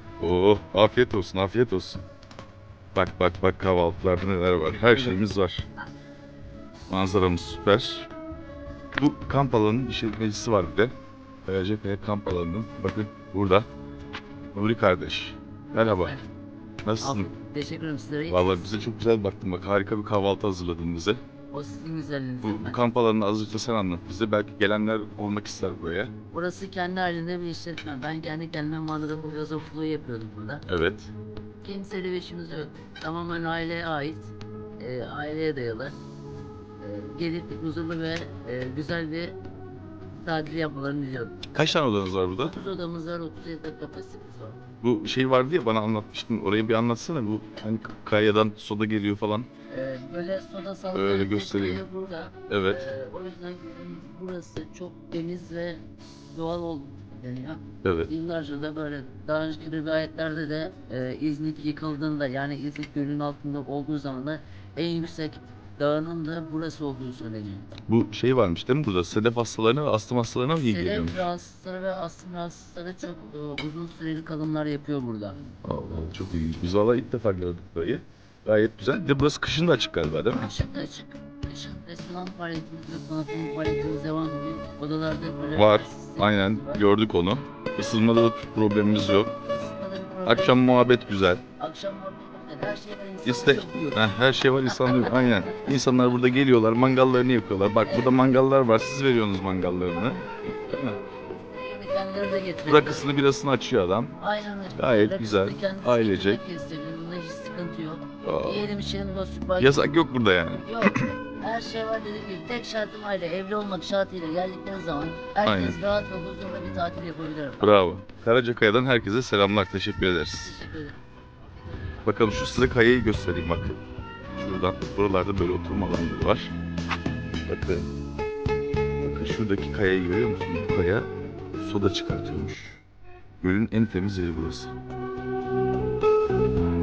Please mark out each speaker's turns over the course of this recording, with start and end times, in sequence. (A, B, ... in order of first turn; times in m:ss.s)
0:00.2-0:02.0 A
0:02.9-0:05.6 A
0:06.9-0:08.1 A
0:09.0-0:10.9 A
0:11.4-0:13.6 A
0:14.5-0:16.2 A
0:15.8-0:16.2 B
0:16.8-0:17.3 A
0:17.0-0:18.9 B
0:18.3-0:21.2 A
0:21.5-0:22.8 B
0:22.4-0:26.1 A
0:26.3-0:30.6 B
0:30.6-0:31.1 A
0:31.6-0:36.0 B
0:36.8-0:39.4 B
0:40.2-0:41.4 B
0:41.5-0:42.6 A
0:42.4-0:44.6 B
0:44.8-0:49.5 A
0:49.7-1:07.7 B
0:50.9-0:51.8 A
0:52.5-0:52.8 A
0:57.8-0:58.1 A
1:07.9-1:11.2 A
1:10.6-1:15.4 B
1:15.6-1:20.5 A
1:20.3-1:26.9 B
1:25.6-1:29.3 A
1:29.4-1:30.6 B
1:30.2-1:31.4 A
1:31.6-1:34.1 B
1:33.2-1:41.0 A
1:34.8-1:35.3 B
1:40.7-1:43.1 B
1:42.6-1:44.1 A
1:44.2-1:50.0 B
1:44.7-1:46.4 A
1:48.2-1:48.6 A
1:49.6-1:51.1 A
1:50.6-1:57.7 B
1:55.4-1:55.8 A
1:57.6-2:00.6 A
2:00.4-2:01.0 B
2:02.0-2:03.8 A
2:04.4-2:06.5 A
2:07.5-2:07.9 A
2:09.0-2:12.8 A
2:13.4-2:14.7 A